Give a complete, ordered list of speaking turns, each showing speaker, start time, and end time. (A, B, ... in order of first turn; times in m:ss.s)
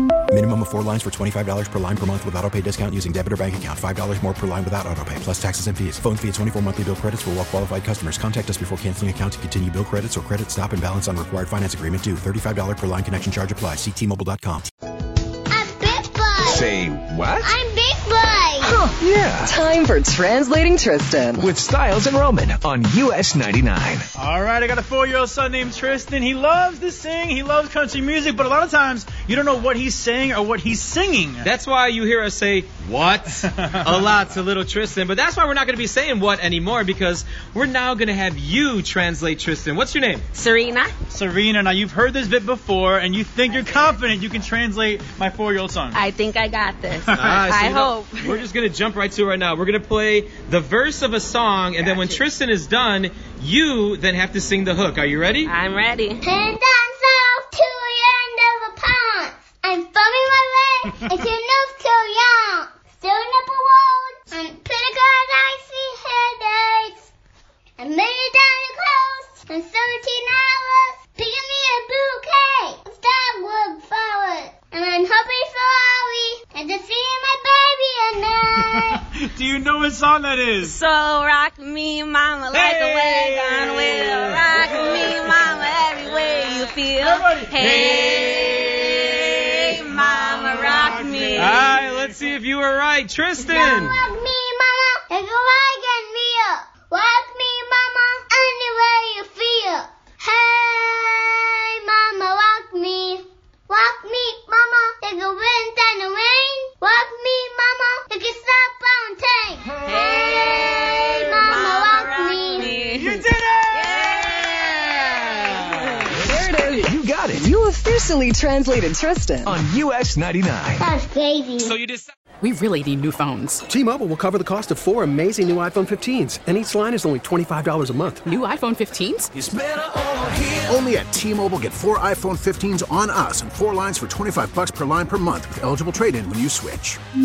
0:00.3-0:14.7 A
0:15.5-0:16.7 B
0:16.4-0:17.6 C
0:17.4-0:18.8 B
0:18.6-0:21.5 D
0:18.8-0:19.5 C
0:21.4-0:24.1 C
0:24.2-0:31.5 E
0:31.4-0:40.3 F
0:33.4-0:34.1 E
0:40.3-0:40.9 G
0:41.1-0:46.0 E
0:43.5-0:44.0 G
0:45.9-0:48.4 G
0:47.0-0:47.4 E
0:47.1-0:55.5 F
0:51.8-0:52.2 G
0:55.4-0:56.2 G
0:56.2-1:07.1 B
1:07.8-1:19.0 B
1:18.5-1:20.8 E
1:20.6-1:31.6 G
1:22.5-1:25.5 F
1:27.0-1:27.6 E
1:27.6-1:28.9 F
1:30.0-1:32.2 E
1:31.3-1:34.0 F
1:33.4-1:52.7 B
1:49.8-1:56.1 G
1:52.9-1:54.8 E
1:56.2-1:59.5 D
1:56.8-1:57.5 C
1:59.4-2:00.8 C
2:00.8-2:01.8 B
2:01.6-2:02.1 F
2:02.4-2:03.6 H
2:03.7-2:08.2 I
2:08.2-2:09.3 H
2:09.4-2:10.7 C
2:10.7-2:17.0 J